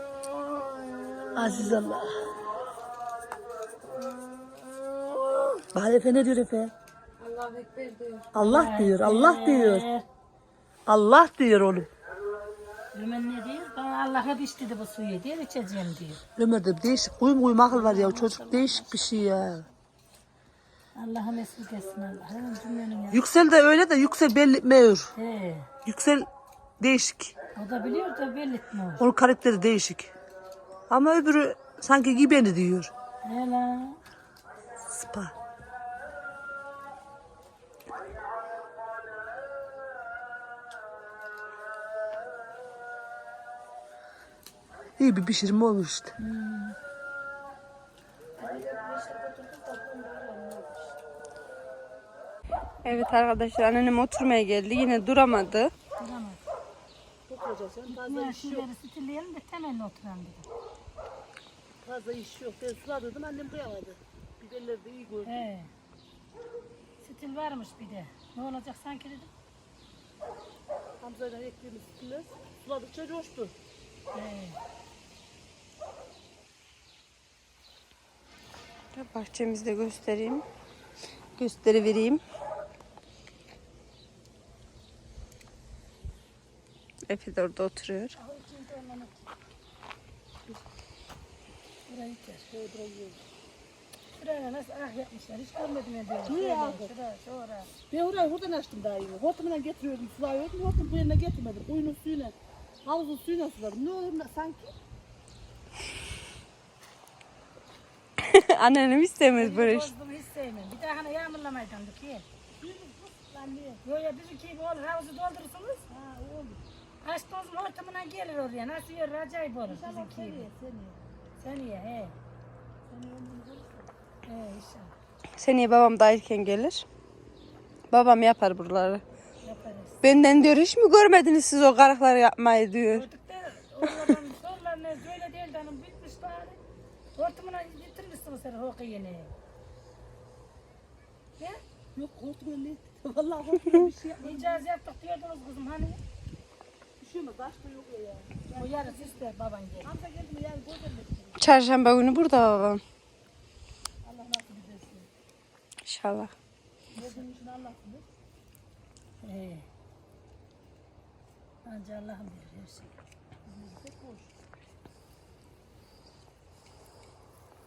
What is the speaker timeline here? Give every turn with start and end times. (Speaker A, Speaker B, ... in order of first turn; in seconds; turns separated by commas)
Speaker A: 1.4-2.1, Speaker A: 5.7-6.7, Speaker B: 7.2-8.3, Speaker A: 8.3-9.9, Speaker C: 8.4-10.1, Speaker A: 10.9-11.9, Speaker C: 12.9-16.2, Speaker A: 16.4-19.7, Speaker C: 17.7-19.2, Speaker C: 20.9-23.3, Speaker A: 23.1-25.1, Speaker C: 25.2-25.7, Speaker A: 25.9-26.3, Speaker A: 26.8-27.4, Speaker C: 27.6-29.0, Speaker A: 29.0-30.1, Speaker A: 30.9-32.9, Speaker C: 33.2-34.0, Speaker A: 34.8-35.3, Speaker A: 45.0-46.1, Speaker C: 46.2-46.8, Speaker B: 48.8-49.4, Speaker B: 52.8-55.7, Speaker C: 56.0-56.4, Speaker A: 57.3-58.7, Speaker C: 57.9-60.5, Speaker A: 61.8-65.5, Speaker C: 65.2-65.7, Speaker C: 67.0-69.3, Speaker A: 71.0-73.5, Speaker C: 74.1-74.6, Speaker B: 78.9-80.5, Speaker B: 81.4-82.2, Speaker B: 87.1-88.2, Speaker C: 88.2-89.4, Speaker C: 91.9-92.5, Speaker A: 92.5-93.2, Speaker C: 94.2-97.7, Speaker A: 96.2-96.9, Speaker A: 97.9-104.8, Speaker B: 108.2-109.9, Speaker C: 109.3-112.3, Speaker A: 112.6-113.8, Speaker C: 113.8-115.8, Speaker A: 115.9-116.6, Speaker C: 117.0-120.5, Speaker A: 119.7-121.0, Speaker C: 121.4-122.2, Speaker A: 122.9-123.9, Speaker C: 124.2-125.0, Speaker B: 125.4-126.8, Speaker B: 127.9-129.0, Speaker C: 129.4-130.0, Speaker B: 130.0-133.1, Speaker C: 132.9-136.6, Speaker C: 137.2-139.3, Speaker A: 141.9-144.7, Speaker C: 144.2-146.0, Speaker A: 147.0-149.2, Speaker C: 148.5-149.9, Speaker A: 149.8-151.4, Speaker B: 151.4-152.8, Speaker A: 154.0-155.1, Speaker B: 155.9-156.3, Speaker A: 156.9-158.1, Speaker C: 156.9-157.2, Speaker C: 159.2-159.7, Speaker C: 161.7-163.0, Speaker A: 163.5-164.3